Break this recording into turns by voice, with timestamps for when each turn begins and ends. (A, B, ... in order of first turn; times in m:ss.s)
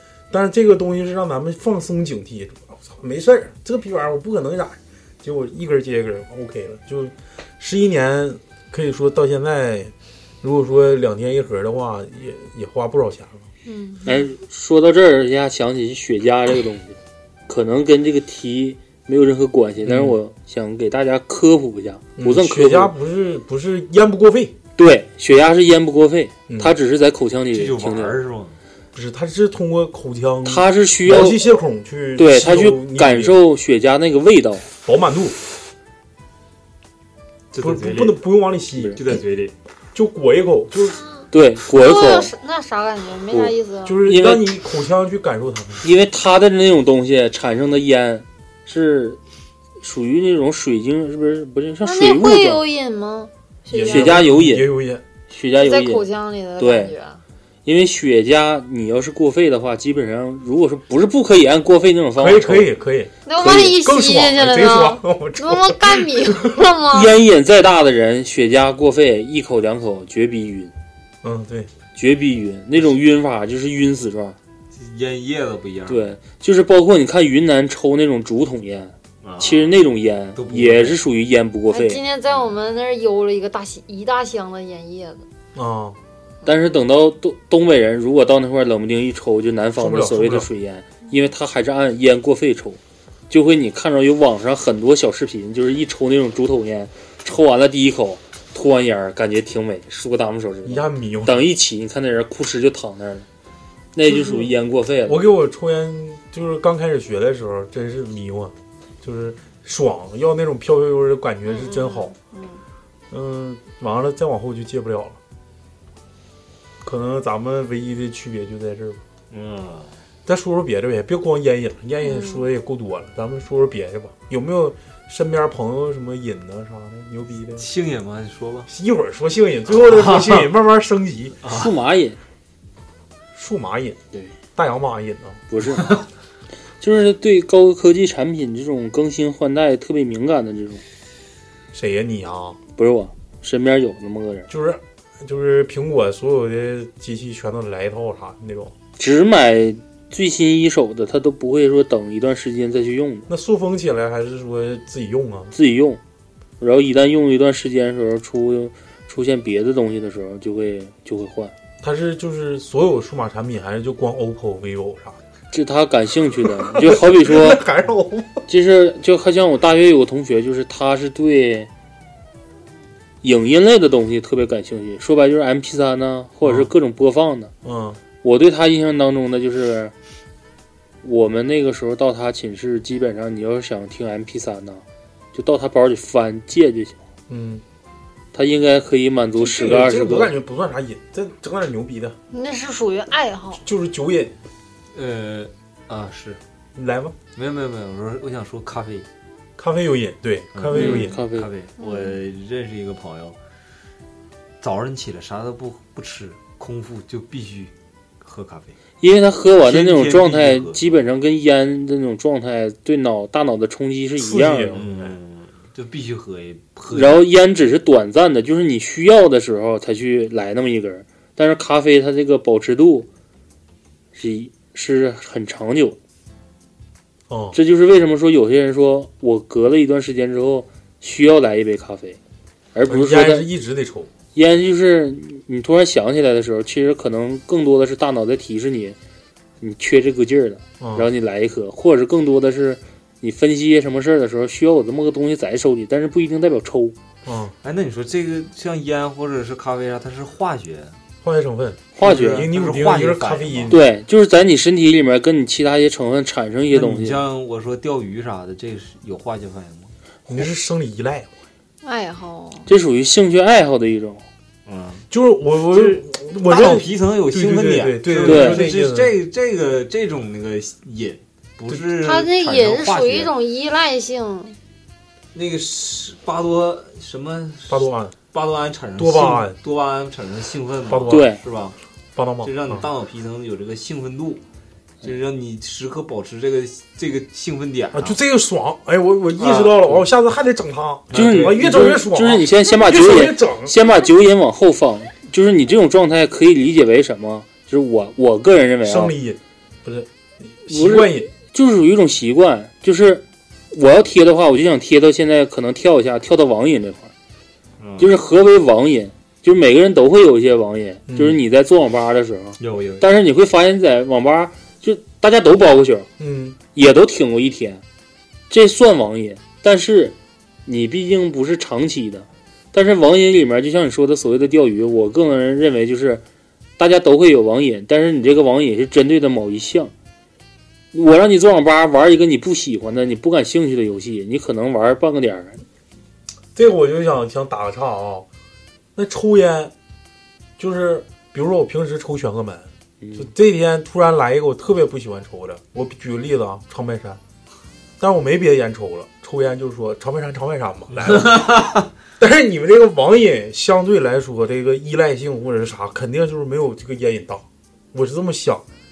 0:00.3-0:13.5 A
0:13.7-0:14.0 B
0:14.0-0:22.9 C
0:19.8-0:20.2 A
0:22.2-0:24.6 A
0:24.8-0:28.2 C
0:26.5-0:26.7 A
0:27.5-0:28.6 D
0:28.9-0:33.4 A
0:30.4-0:31.4 C
0:32.2-0:34.6 C
0:34.8-0:35.4 A
0:37.5-0:38.2 D
0:37.6-0:39.2 A
0:39.0-0:39.5 D
0:39.9-0:41.0 A
0:41.3-0:42.3 C
0:41.7-0:44.0 B
0:43.3-0:44.4 C
0:43.8-0:45.8 A
0:45.8-0:49.2 C
0:49.8-0:52.6 C
0:51.8-0:54.2 B
0:53.7-0:55.0 A
0:53.8-0:54.7 C
0:55.3-0:56.0 C
0:55.6-0:57.2 B
0:56.6-0:56.9 C
0:57.6-1:02.7 C
1:02.2-1:06.6 A
1:03.2-1:07.2 B
1:03.4-1:03.7 C
1:06.9-1:10.7 C
1:11.2-1:11.7 A
1:11.9-1:14.4 C
1:14.7-1:16.1 D
1:15.9-1:22.0 C
1:19.2-1:19.8 D
1:20.3-1:21.0 D
1:21.7-1:25.2 B
1:25.5-1:26.0 A
1:26.4-1:32.8 C
1:29.8-1:30.5 A
1:33.3-1:43.2 C
1:40.6-1:41.4 A
1:43.9-1:45.2 C
1:44.1-1:44.5 A
1:45.0-1:52.1 A
1:51.4-1:52.6 B
1:53.1-1:55.2 A
1:56.8-1:59.0 A
1:59.3-2:00.0 D
2:00.2-2:07.7 A
2:02.0-2:02.4 B
2:07.6-2:08.7 D
2:08.7-2:11.4 A
2:09.7-2:10.5 D
2:11.4-2:11.7 D
2:11.5-2:12.2 C
2:13.3-2:14.0 A
2:14.6-2:15.4 A
2:15.5-2:16.0 C
2:16.8-2:20.8 C
2:21.7-2:22.6 A
2:22.8-2:24.5 C
2:24.5-2:28.7 A
2:29.0-2:33.3 C
2:33.3-2:35.5 A
2:35.5-2:36.0 C
2:36.6-2:41.5 C
2:41.8-2:45.2 A
2:45.5-2:47.6 C
2:46.4-2:48.4 A
2:48.5-2:51.7 C
2:53.2-2:57.5 C
2:56.4-2:56.7 A
2:57.6-2:58.0 A
2:58.2-2:59.9 C
3:01.0-3:04.8 C
3:05.3-3:07.0 C
3:07.3-3:07.6 A
3:08.3-3:10.3 C
3:09.4-3:12.2 A
3:12.3-3:13.6 B
3:13.6-3:14.3 A
3:14.9-3:16.4 D
3:16.8-3:17.2 A
3:17.3-3:19.0 D
3:19.6-3:21.1 A
3:20.5-3:23.4 D
3:20.7-3:21.5 C
3:21.8-3:22.2 B
3:24.6-3:28.8 D
3:29.0-3:34.8 C
3:29.6-3:31.0 D
3:34.2-3:35.1 A
3:34.7-3:37.2 D
3:36.9-3:43.1 C
3:44.1-3:46.0 C
3:47.3-3:47.6 A
3:47.5-3:52.2 C
3:52.7-3:53.5 C
3:52.9-3:54.1 A
3:54.3-3:59.0 C
3:59.6-4:07.0 C
4:00.8-4:01.1 A
4:07.2-4:07.5 A
4:07.6-4:11.0 D
4:11.2-4:13.8 A
4:12.0-4:12.5 C
4:12.0-4:13.8 D
4:13.7-4:17.2 C
4:16.7-4:19.9 D
4:20.3-4:21.3 A
4:21.8-4:22.7 B
4:22.7-4:24.2 C
4:24.6-4:25.0 D
4:25.1-4:29.1 A
4:25.7-4:33.3 D
4:28.2-4:28.6 C
4:32.0-4:34.6 B
4:35.3-4:41.8 D
4:37.7-4:38.1 A
4:39.0-4:39.6 A
4:40.8-4:41.2 A
4:41.1-4:41.4 C
4:42.2-4:42.8 A
4:42.4-4:44.4 D
4:45.0-4:48.2 D
4:47.9-4:53.7 A
4:49.4-4:50.0 D
4:51.1-4:51.9 D
4:51.1-4:59.1 C
4:58.8-5:01.3 A
5:00.7-5:07.1 C
5:07.8-5:08.1 D
5:08.0-5:16.1 C
5:11.1-5:11.4 A
5:12.6-5:13.1 D
5:16.2-5:16.6 A
5:16.7-5:17.8 C
5:18.5-5:26.2 C
5:26.8-5:29.9 C
5:30.9-5:35.6 C
5:36.5-5:38.3 A
5:39.0-5:39.7 A
5:40.6-5:47.2 A
5:43.0-5:43.3 C
5:48.0-5:58.6 A
5:50.9-5:51.9 D